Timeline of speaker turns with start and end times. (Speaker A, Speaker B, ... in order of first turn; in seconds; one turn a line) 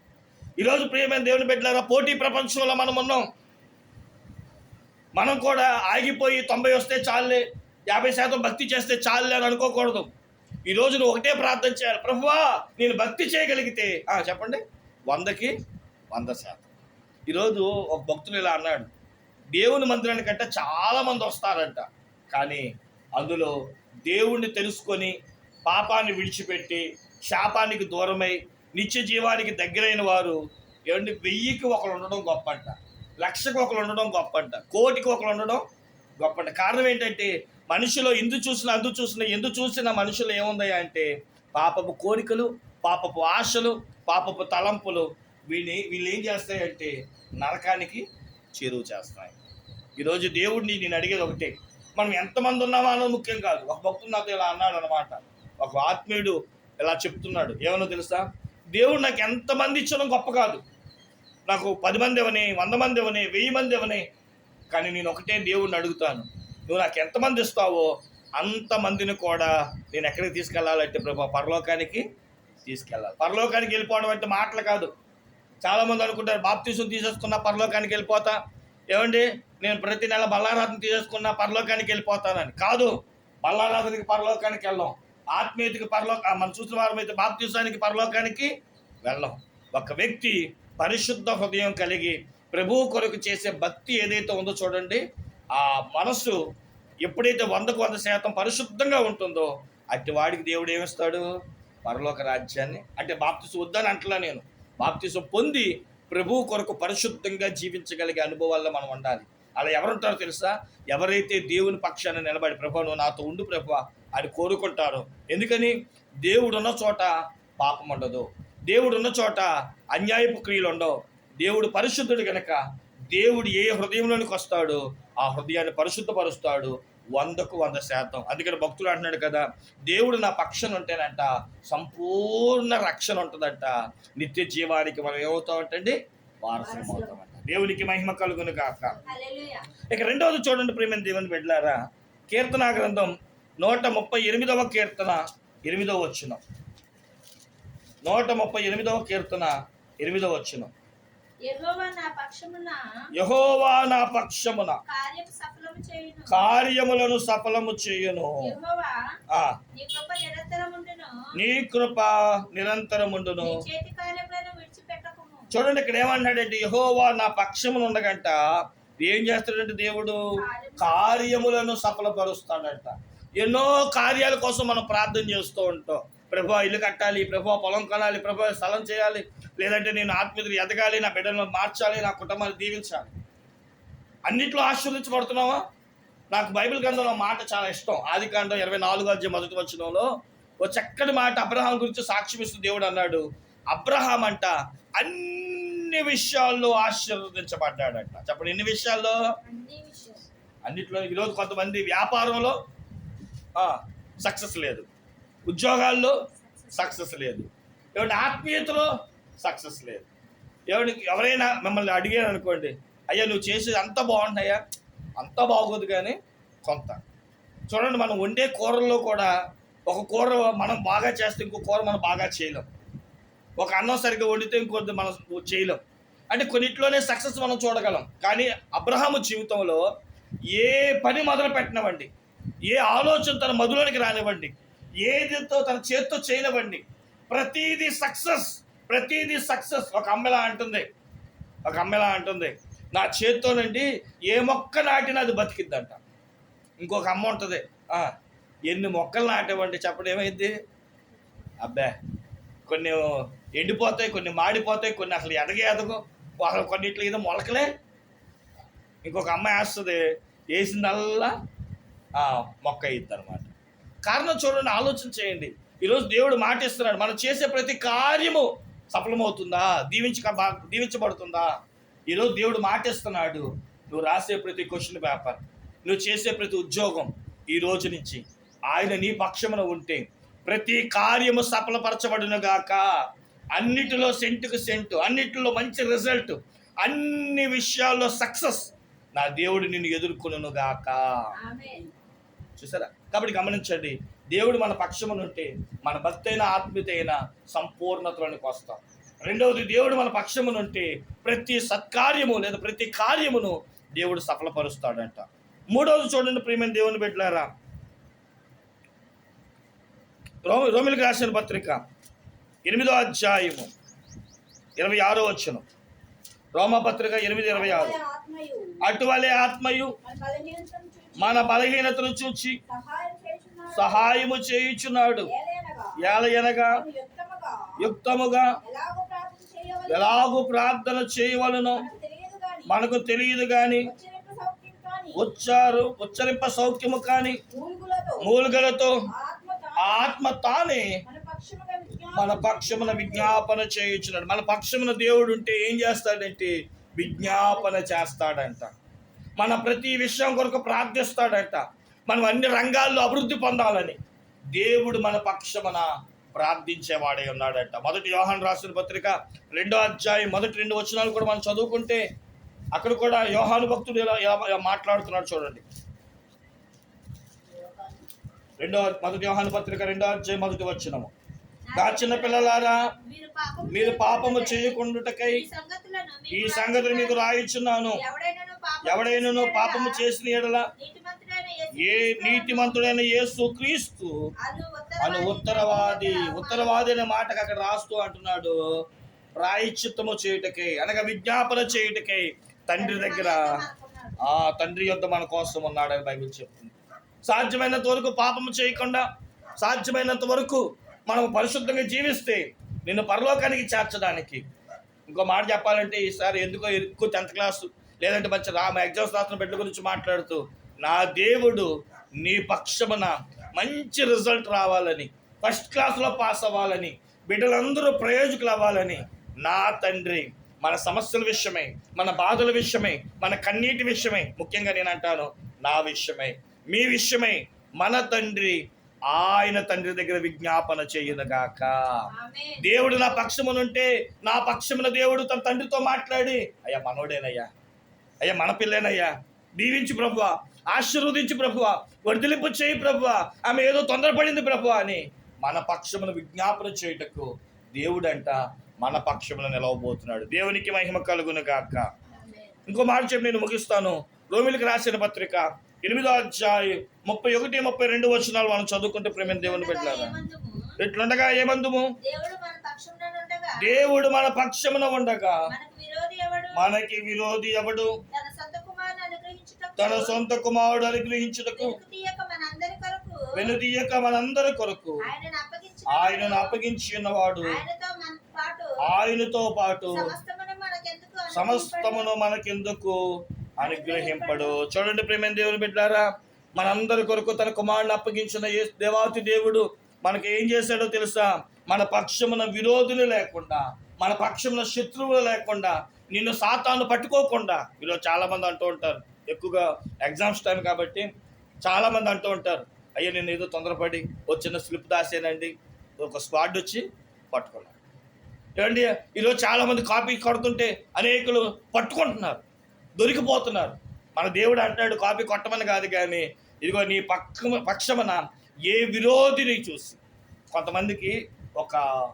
Speaker A: 0.6-3.2
Speaker A: 5.2-10.1
Speaker A: 10.7-15.5
Speaker A: 16.1-16.7
Speaker A: 17.3-18.9
Speaker A: 19.5-22.6
Speaker A: 23.2-25.1
Speaker A: 25.6-35.6
Speaker A: 36.2-48.0
Speaker A: 48.5-49.3
Speaker A: 50.0-60.6
Speaker A: 61.5-64.0
Speaker A: 64.7-72.0
Speaker A: 72.6-74.9
Speaker A: 75.6-78.4
Speaker A: 78.9-88.5
Speaker A: 89.0-96.4
Speaker A: 97.0-101.3
Speaker A: 101.8-139.0
Speaker B: 136.6-137.2
Speaker B: 139.0-139.7
Speaker A: 139.9-146.4
Speaker A: 148.0-150.7
Speaker B: 151.4-152.8
Speaker A: 153.2-154.8
Speaker B: 154.8-156.5
Speaker A: 156.3-158.5
Speaker B: 158.4-159.0
Speaker A: 159.3-159.6
Speaker B: 159.7-161.3
Speaker A: 161.3-163.6
Speaker B: 163.4-165.5
Speaker A: 165.5-170.2
Speaker B: 170.4-171.2
Speaker A: 170.8-183.1
Speaker A: 184.3-185.6
Speaker A: 186.3-190.1
Speaker A: 190.6-199.2
Speaker B: 199.4-200.2
Speaker A: 200.7-202.6
Speaker A: 203.5-204.9
Speaker A: 205.5-206.2
Speaker B: 206.4-207.0
Speaker A: 206.7-208.9
Speaker A: 209.4-210.1
Speaker A: 210.7-214.6
Speaker A: 215.2-217.0
Speaker A: 217.7-219.3
Speaker A: 219.9-222.7
Speaker A: 223.6-229.9
Speaker A: 230.5-232.1
Speaker A: 232.6-240.8
Speaker A: 241.6-246.0
Speaker A: 246.8-248.1
Speaker A: 248.7-250.5
Speaker A: 251.6-251.9
Speaker A: 252.7-257.7
Speaker A: 259.0-261.3
Speaker A: 262.1-263.5
Speaker A: 264.0-271.5
Speaker A: 272.1-282.8
Speaker A: 283.5-291.2
Speaker B: 283.8-284.1
Speaker B: 291.4-291.9
Speaker A: 292.6-307.5
Speaker A: 310.4-311.8
Speaker A: 312.6-313.7
Speaker A: 314.8-315.6
Speaker A: 316.5-318.0
Speaker C: 317.5-318.8
Speaker A: 318.8-319.9
Speaker C: 320.0-321.7
Speaker A: 321.2-322.6
Speaker C: 322.7-324.2
Speaker A: 323.7-325.3
Speaker C: 325.2-327.9
Speaker A: 326.0-326.8
Speaker A: 327.8-328.5
Speaker C: 328.6-330.3
Speaker A: 329.9-331.9
Speaker C: 331.7-332.7
Speaker A: 332.7-333.9
Speaker C: 333.8-335.2
Speaker A: 335.1-337.4
Speaker C: 337.5-338.3
Speaker A: 338.2-339.0
Speaker C: 339.1-340.2
Speaker A: 339.8-341.0
Speaker C: 341.0-343.4
Speaker A: 342.1-348.7
Speaker A: 349.4-354.0
Speaker A: 354.5-362.0
Speaker A: 362.7-365.6
Speaker C: 367.5-368.0
Speaker A: 368.6-371.1
Speaker B: 371.7-377.4
Speaker A: 371.7-372.9
Speaker A: 373.7-375.4
Speaker A: 376.3-378.0
Speaker B: 377.9-380.0
Speaker A: 378.8-380.7
Speaker B: 380.8-382.9
Speaker A: 381.8-384.1
Speaker B: 384.4-386.9
Speaker A: 385.0-388.6
Speaker A: 389.4-393.6
Speaker B: 392.8-394.4
Speaker A: 394.2-396.7
Speaker A: 397.3-399.1
Speaker A: 399.6-404.4
Speaker A: 405.1-411.7
Speaker A: 412.2-432.1
Speaker B: 432.1-433.3
Speaker A: 432.6-437.5
Speaker A: 438.2-451.9
Speaker B: 452.1-452.6
Speaker A: 452.7-460.1
Speaker B: 459.2-460.7
Speaker A: 460.8-461.9
Speaker B: 462.0-463.9
Speaker A: 463.6-465.4
Speaker B: 465.5-466.7
Speaker A: 466.5-468.0
Speaker B: 468.1-470.2
Speaker A: 469.8-471.8
Speaker B: 471.6-473.6
Speaker A: 473.3-475.0
Speaker B: 475.0-476.6
Speaker A: 475.9-477.6
Speaker B: 477.4-478.9
Speaker A: 478.8-480.1
Speaker B: 479.9-482.1
Speaker A: 481.3-483.0
Speaker A: 483.6-501.1
Speaker B: 483.6-484.6
Speaker A: 501.6-507.7
Speaker A: 508.6-512.4
Speaker A: 513.0-520.0
Speaker A: 520.5-521.8